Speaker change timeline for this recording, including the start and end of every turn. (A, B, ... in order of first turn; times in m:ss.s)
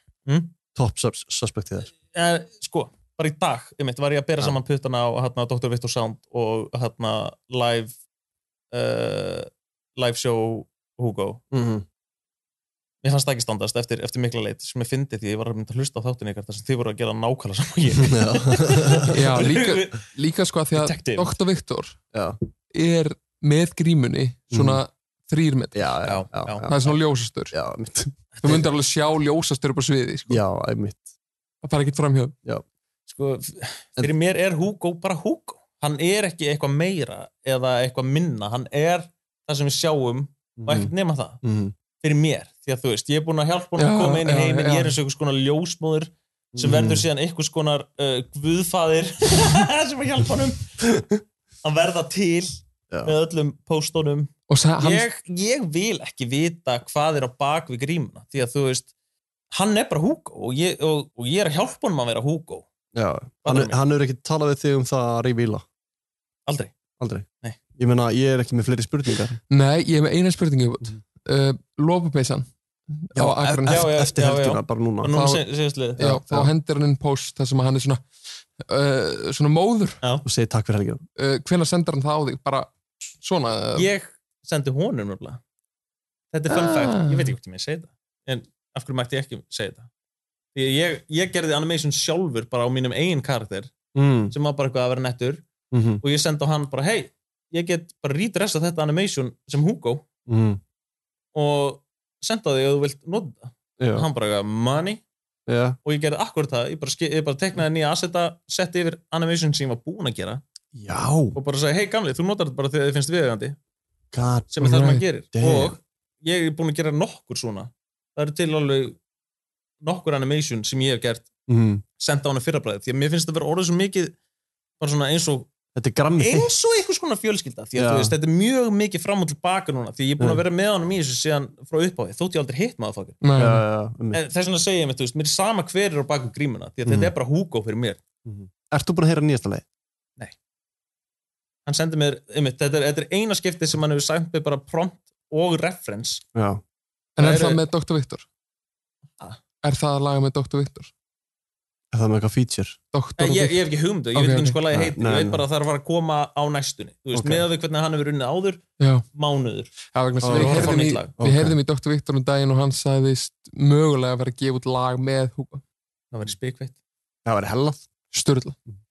0:00.3-0:00.6 A
0:00.7-0:01.9 B
0:01.9-0:07.9 A
0:08.7-0:11.4 A
0:11.5-0:11.8 B
0:13.0-0:20.1 A
0:18.0-0:19.1 B
0:19.1-0:22.0 C
0:20.7-0:21.3 A
0:22.7-0:25.9 C
0:24.5-0:24.8 B
0:25.7-0:26.7 B
0:26.0-0:26.9 A
0:26.6-0:27.5 C
0:27.5-0:28.6 B
0:28.4-0:30.4 C
0:30.3-0:31.1 B
0:31.6-0:32.3 C
0:33.1-0:41.4 A
0:40.6-0:41.7 B
0:42.0-0:50.6 A
0:43.8-0:45.0 C
0:46.5-0:47.0 B
0:51.6-0:58.9 A
0:54.5-0:55.0 C
0:59.5-1:02.7 A
1:02.9-1:05.6 B
1:03.4-1:03.8 A
1:06.5-1:06.7 A
1:07.0-1:09.4 B
1:09.5-1:13.9 C
1:13.1-1:15.3 B
1:13.7-1:16.0 A
1:15.1-1:15.4 C
1:16.0-1:16.5 B
1:16.0-1:18.0 C
1:18.6-1:20.0 C
1:20.2-1:21.0 B
1:21.2-1:22.7 C
1:23.2-1:23.9 C
1:23.8-1:25.4 A
1:26.3-1:29.9 A
1:26.5-1:27.3 C
1:30.5-1:33.8 A
1:33.9-1:34.3 B
1:34.3-1:35.5 A
1:35.7-1:36.0 B
1:36.0-1:40.1 A
1:40.3-1:40.6 B
1:41.3-1:45.0 A
1:43.8-1:44.1 B
1:45.5-1:45.8 B
1:45.8-1:50.4 A
1:50.7-1:51.4 B
1:51.3-1:53.6 A
1:54.1-1:54.6 B
1:54.5-1:59.0 A
1:54.6-1:55.0 C
1:55.3-1:55.8 B
1:59.8-2:01.3 A
2:01.5-2:01.8 B
2:02.0-2:04.1 A
2:04.8-2:05.5 A
2:05.7-2:06.5 B
2:06.2-2:13.2 A
2:07.7-2:08.1 B
2:13.2-2:13.6 C
2:13.4-2:14.2 B
2:14.1-2:18.0 A
2:16.8-2:17.1 B
2:18.2-2:19.6 B
2:21.6-2:26.2 A
2:26.3-2:26.6 B
2:27.2-2:28.2 C
2:27.2-2:27.6 A
2:29.6-2:30.9 C
2:31.9-2:32.8 B
2:32.9-2:33.6 C
2:33.2-2:41.1 A
2:34.1-2:34.6 C
2:34.7-2:35.4 B
2:37.2-2:37.5 B
2:38.8-2:39.0 C
2:39.9-2:45.6 C
2:40.2-2:41.6 B
2:46.1-2:46.7 A
2:47.2-2:47.8 B
2:48.1-2:48.6 C